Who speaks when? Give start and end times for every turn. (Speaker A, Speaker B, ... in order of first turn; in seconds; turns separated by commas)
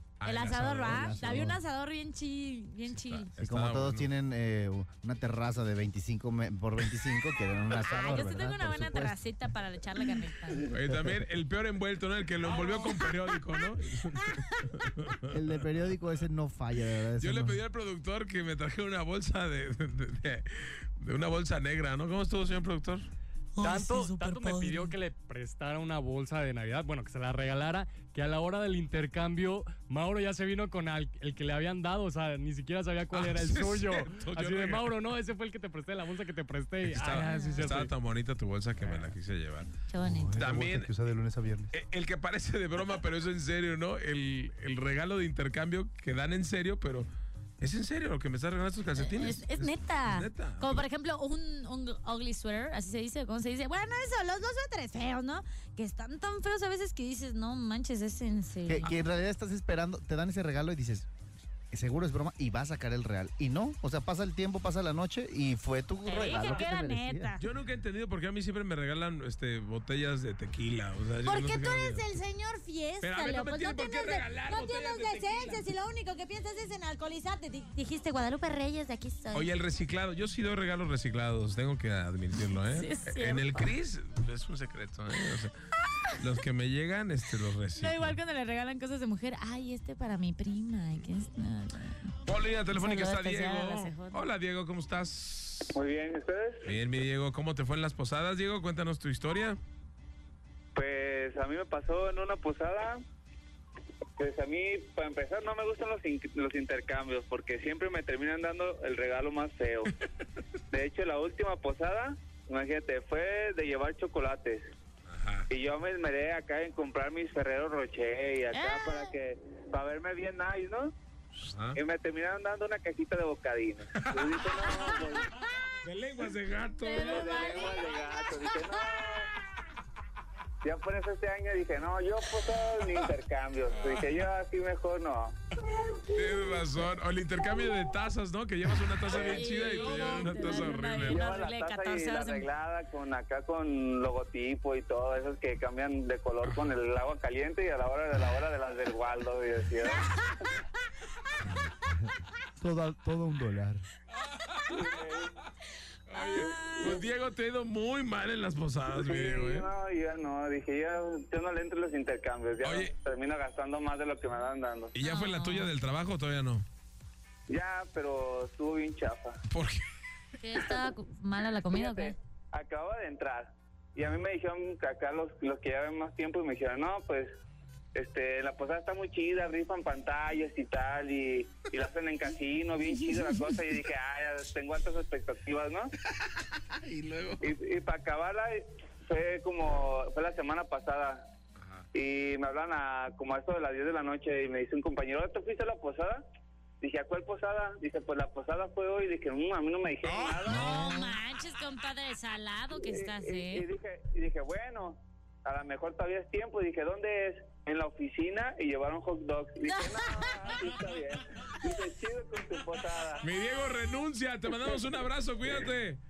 Speaker A: 0.2-1.4, Speaker B: 0.2-3.3, Speaker C: 0.9-1.6, Speaker A: 2.9-4.1, Speaker C: 3.4-9.2, Speaker B: 7.7-10.7, Speaker A: 10.7-15.2, Speaker B: 12.4-14.6, Speaker C: 15.3-17.6, Speaker A: 17.2-23.1, Speaker B: 23.5-25.0, Speaker D: 23.6-37.9, Speaker A: 33.1-35.0, Speaker A: 36.8-39.7, Speaker B: 37.0-37.7, Speaker C: 38.8-39.1, Speaker B: 39.9-40.4, Speaker C: 40.0-41.7, Speaker A: 40.4-40.9, Speaker A: 41.7-47.1, Speaker A: 47.6-50.8, Speaker B: 49.0-58.9, Speaker C: 58.6-61.1, Speaker C: 61.7-67.3, Speaker B: 66.0-67.4, Speaker A: 66.3-66.7, Speaker A: 67.4-72.0, Speaker B: 71.2-79.5, Speaker A: 73.0-75.7, Speaker A: 79.3-85.5, Speaker B: 82.7-83.7, Speaker A: 86.2-88.2, Speaker B: 87.8-92.1, Speaker A: 92.2-95.8, Speaker B: 92.7-94.2, Speaker E: 95.7-96.7, Speaker A: 96.6-99.6, Speaker E: 100.7-103.0, Speaker E: 104.2-109.9, Speaker E: 110.7-114.6, Speaker A: 115.1-115.5, Speaker E: 115.5-120.9, Speaker B: 118.5-119.1, Speaker A: 121.3-121.8, Speaker E: 121.8-125.3, Speaker A: 123.9-124.7, Speaker B: 124.7-125.3, Speaker A: 125.8-127.5, Speaker B: 126.8-128.6, Speaker E: 126.9-129.3, Speaker E: 130.6-135.3, Speaker A: 133.7-134.1, Speaker A: 136.1-141.3, Speaker E: 139.1-150.3, Speaker B: 139.1-142.5, Speaker C: 151.4-153.8, Speaker A: 154.1-155.0, Speaker E: 154.7-155.3, Speaker A: 156.1-159.7, Speaker B: 156.1-157.0, Speaker E: 156.3-157.1, Speaker E: 158.9-164.9, Speaker A: 162.6-162.9, Speaker A: 164.9-166.7, Speaker B: 165.0-165.7, Speaker E: 167.5-169.3, Speaker A: 169.5-169.8, Speaker B: 170.3-172.2, Speaker E: 170.6-170.8, Speaker E: 171.7-177.4, Speaker E: 177.9-185.9, Speaker A: 186.3-187.5, Speaker E: 187.4-191.2, Speaker A: 191.6-191.9, Speaker E: 191.9-196.2, Speaker E: 196.8-200.7, Speaker A: 200.0-200.4, Speaker C: 200.4-201.2, Speaker B: 200.5-203.7, Speaker E: 202.8-213.2, Speaker B: 209.6-210.7, Speaker A: 213.2-216.0, Speaker E: 214.5-214.8